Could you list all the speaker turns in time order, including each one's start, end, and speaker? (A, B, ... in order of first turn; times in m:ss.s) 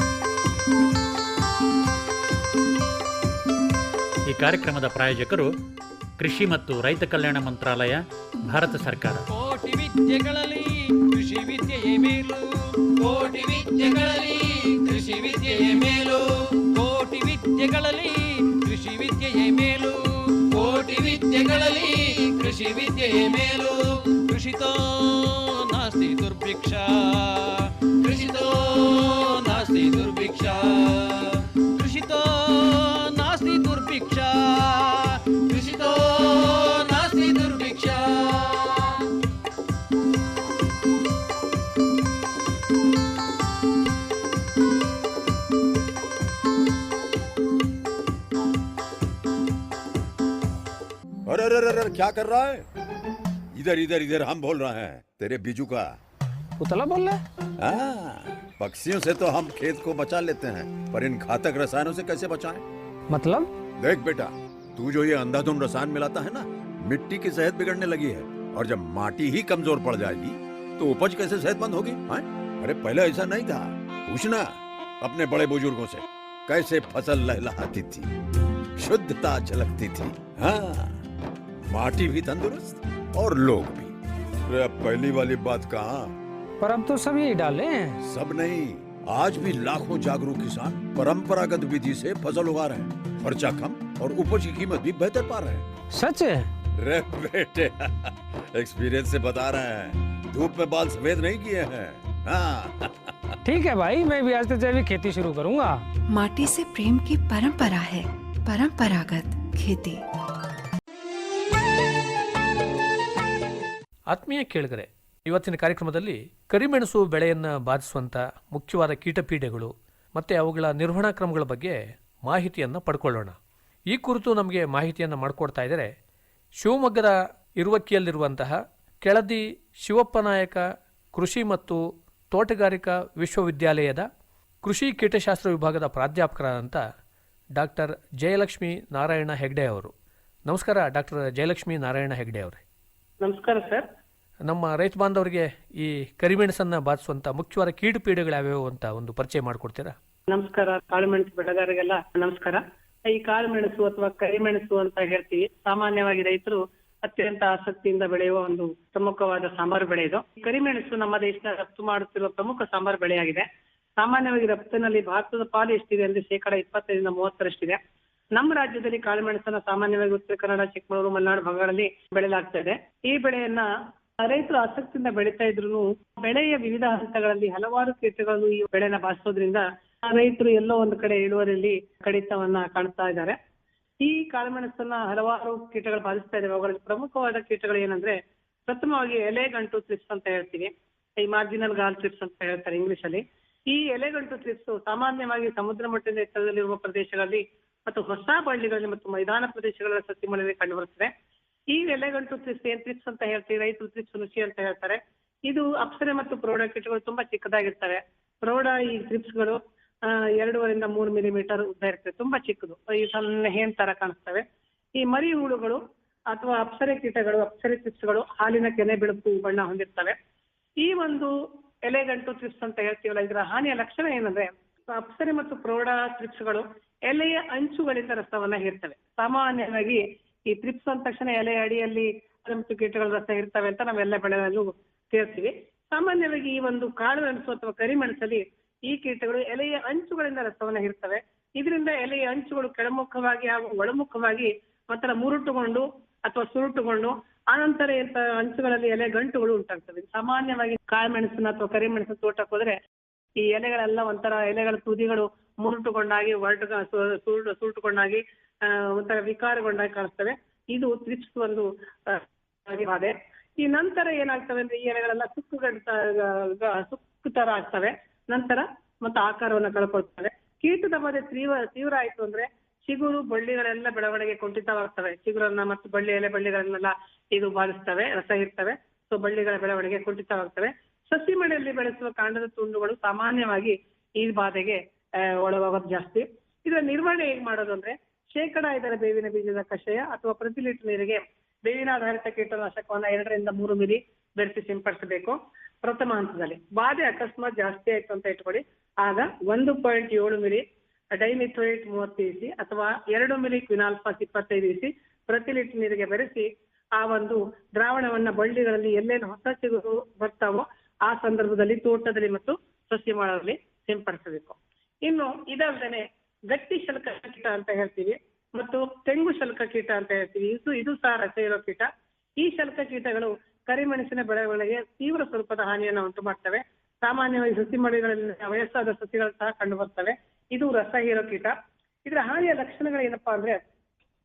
0:04.3-0:05.5 A
0:06.2-0:09.2 A
0:09.3-0:39.0 B
0:51.3-0:52.7 C
0:53.5-0:55.9 C
0:56.6-0:57.2 D
0:57.6-1:02.6 C
1:03.1-1:03.5 D
1:03.8-1:18.1 C
1:18.8-1:20.9 C
1:21.7-1:23.9 C
1:24.5-1:26.1 C
1:26.6-1:28.0 D
1:28.0-1:35.7 C
1:35.9-1:36.5 D
1:36.8-1:43.1 C
1:43.4-1:45.8 D
1:46.1-1:50.0 E
1:54.1-2:03.4 F
2:03.9-2:05.9 F
2:06.6-2:14.1 F
2:14.6-2:16.8 F
2:17.6-2:19.9 F
2:20.5-2:22.6 F
2:23.2-2:23.9 G
2:24.5-2:30.0 F
2:30.3-2:43.5 G
2:44.0-2:47.8 G
2:48.4-2:53.7 G
2:54.2-3:03.4 G
3:04.0-3:21.1 G
3:21.7-3:34.4 G
3:35.0-3:40.2 G
3:40.8-3:41.3 G
3:41.8-4:12.8 G
4:13.4-5:31.5 G
5:32.0-5:33.6 G